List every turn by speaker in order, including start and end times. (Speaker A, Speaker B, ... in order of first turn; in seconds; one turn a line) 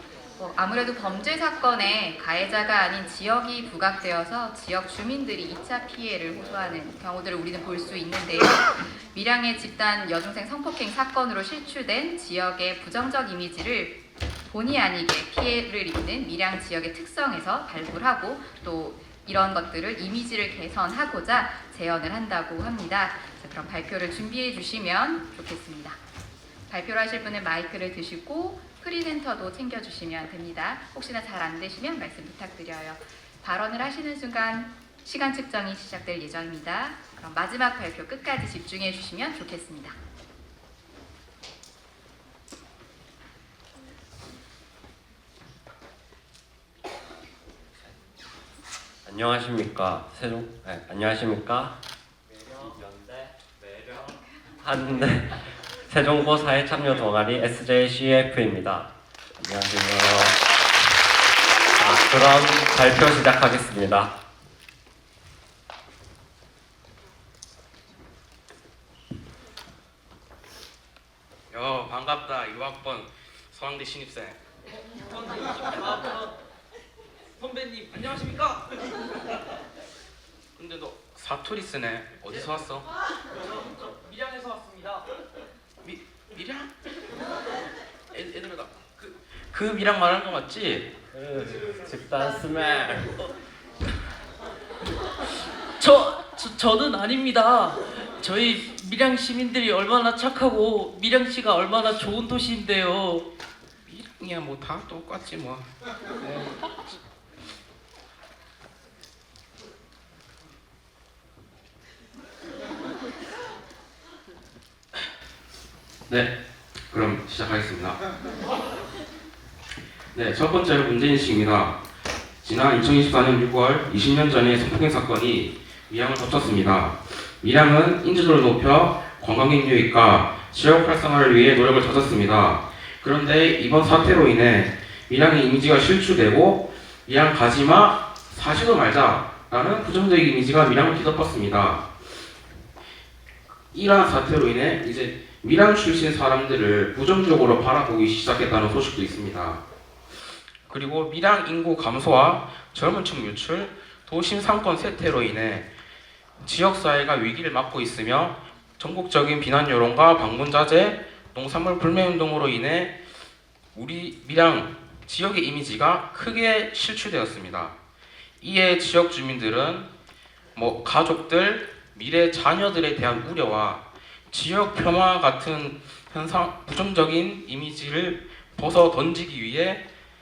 Speaker A: 0.4-14.0
Speaker A: 14.5-26.0
Speaker A: 26.7-40.0
Speaker B: 49.0-51.8
Speaker B: 52.3-60.5
Speaker B: 61.7-64.1
Speaker C: 71.5-74.4
Speaker D: 75.1-76.2
Speaker C: 75.6-75.9
Speaker D: 77.4-78.6
Speaker C: 80.6-82.8
Speaker D: 84.0-85.0
Speaker C: 85.8-86.7
Speaker C: 88.1-90.9
Speaker B: 91.1-93.1
Speaker D: 95.8-103.3
Speaker C: 103.8-105.7
Speaker C: 116.1-116.3
Speaker C: 116.9-118.0
Speaker C: 120.1-121.8
Speaker C: 122.4-142.3
Speaker C: 143.7-149.6
Speaker C: 150.7-155.7
Speaker C: 156.4-163.0
Speaker C: 163.7-167.8
Speaker C: 168.4-169.9
Speaker C: 170.6-179.8